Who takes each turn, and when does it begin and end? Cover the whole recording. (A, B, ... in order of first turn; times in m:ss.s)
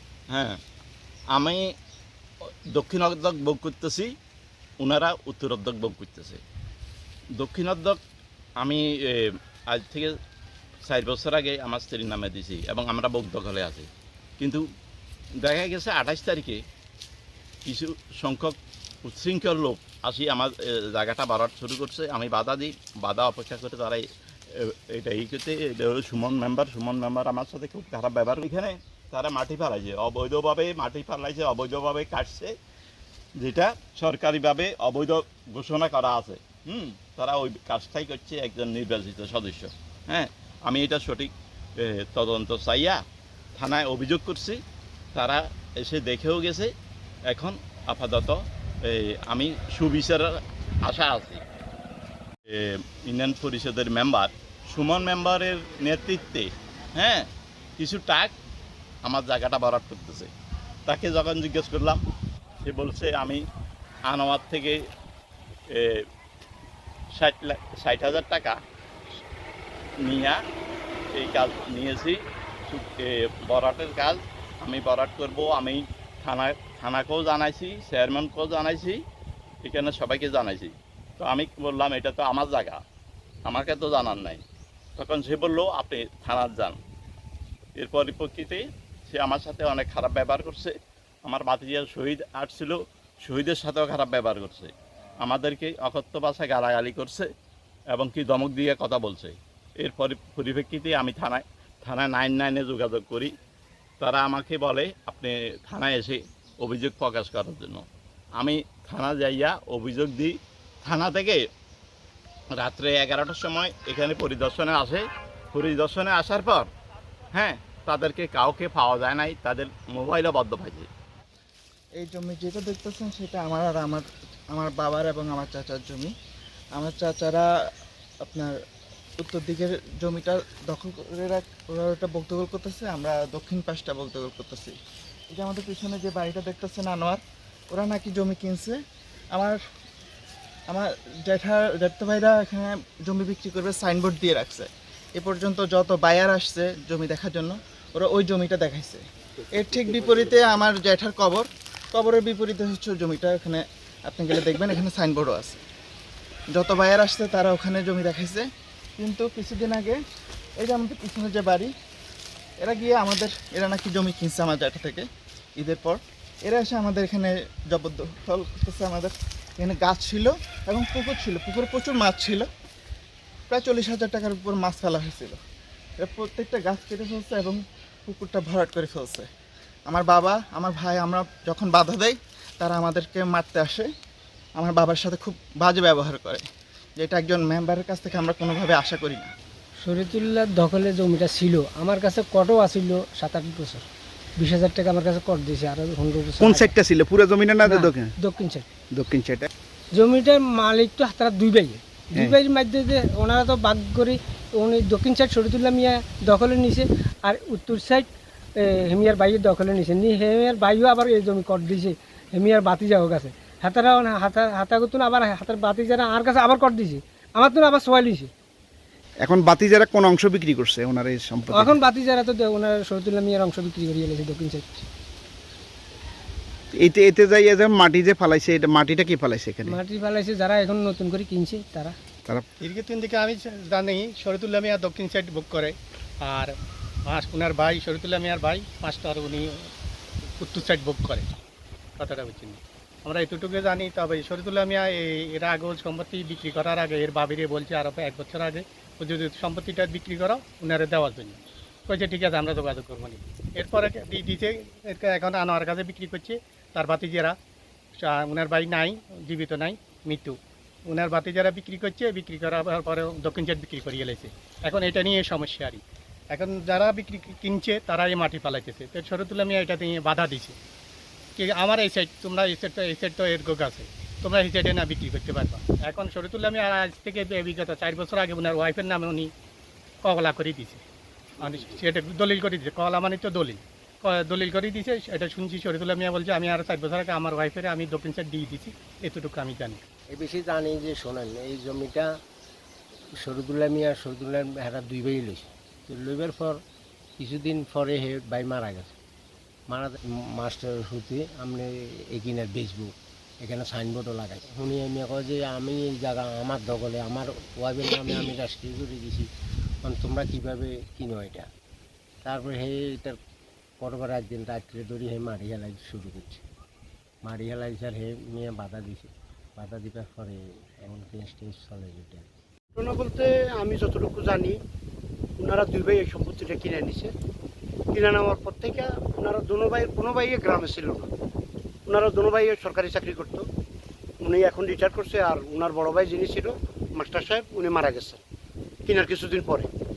0:00.3-0:00.6 A
0:01.3-0:01.6 A
0:02.7-0:04.1 A
0:04.8-0:06.4 A
0:07.4-0:08.0 A
0:08.6-0:10.1 A
0:10.9-0:13.9 A
0:15.4-0:16.6 A
0:17.7-0:24.0 A
0:24.6-0:32.5 A
0:33.4-0:43.0 A
0:43.6-0:44.6 A
0:45.1-0:46.7 A
0:47.3-0:50.3 A
0:50.8-0:51.4 A
0:52.5-0:58.3 A
0:59.0-1:00.3 A
1:00.9-1:02.0 A
1:02.6-1:03.4 A
1:04.1-1:04.8 A
1:05.7-1:06.0 A
1:07.2-1:08.6 A
1:10.0-1:10.4 A
1:11.2-1:19.0 A
1:19.6-1:22.8 A
1:23.5-1:24.4 A
1:25.0-1:26.8 A
1:27.8-1:30.7 A
1:31.3-1:34.7 A
1:35.2-1:37.3 A
1:38.0-1:43.3 A
1:44.0-1:47.8 A
1:48.4-1:51.4 A
1:52.6-1:56.7 A
1:57.4-2:00.9 A
2:02.0-2:06.1 B
2:06.8-2:07.5 B
2:08.3-2:08.5 B
2:09.2-2:14.8 B
2:15.3-2:17.2 B
2:17.7-2:18.8 B
2:20.7-2:29.0 B
2:29.5-2:35.6 B
2:36.5-2:38.5 B
2:39.0-2:40.0 B
2:40.6-2:41.7 B
2:42.6-2:45.0 B
2:45.6-2:52.5 B
2:53.5-2:55.4 B
2:56.0-2:59.3 B
2:59.9-3:03.9 B
3:04.6-3:06.4 B
3:07.0-3:09.3 B
3:09.8-3:13.8 C
3:14.4-3:16.7 C
3:16.4-3:18.1 D
3:17.6-3:18.7 C
3:18.9-3:19.5 D
3:20.0-3:28.1 C
3:28.8-3:38.3 C
3:39.2-3:41.8 D
3:41.5-3:44.8 C
3:46.7-3:49.8 D
3:49.6-3:52.0 C
3:52.6-3:56.5 E
3:57.1-3:59.7 E
4:00.4-4:01.3 E
4:02.0-4:17.4 E
4:18.0-4:20.4 E
4:20.9-4:25.8 E
4:26.3-4:30.6 E
4:31.4-4:39.3 E
4:40.1-4:40.8 E
4:41.4-4:49.8 E
4:41.4-4:41.8 F
4:50.1-4:52.1 F
4:53.2-4:56.6 F
4:57.2-4:59.0 F
4:59.7-5:09.3 F
5:09.8-5:11.5 F
5:12.2-5:13.2 F
5:13.8-5:16.4 F
5:17.3-5:22.3 F
5:22.8-5:24.6 G
5:25.4-5:27.1 G
5:27.9-5:31.1 G
5:31.9-5:33.5 G
5:34.2-5:38.2 G
5:38.9-5:39.7 G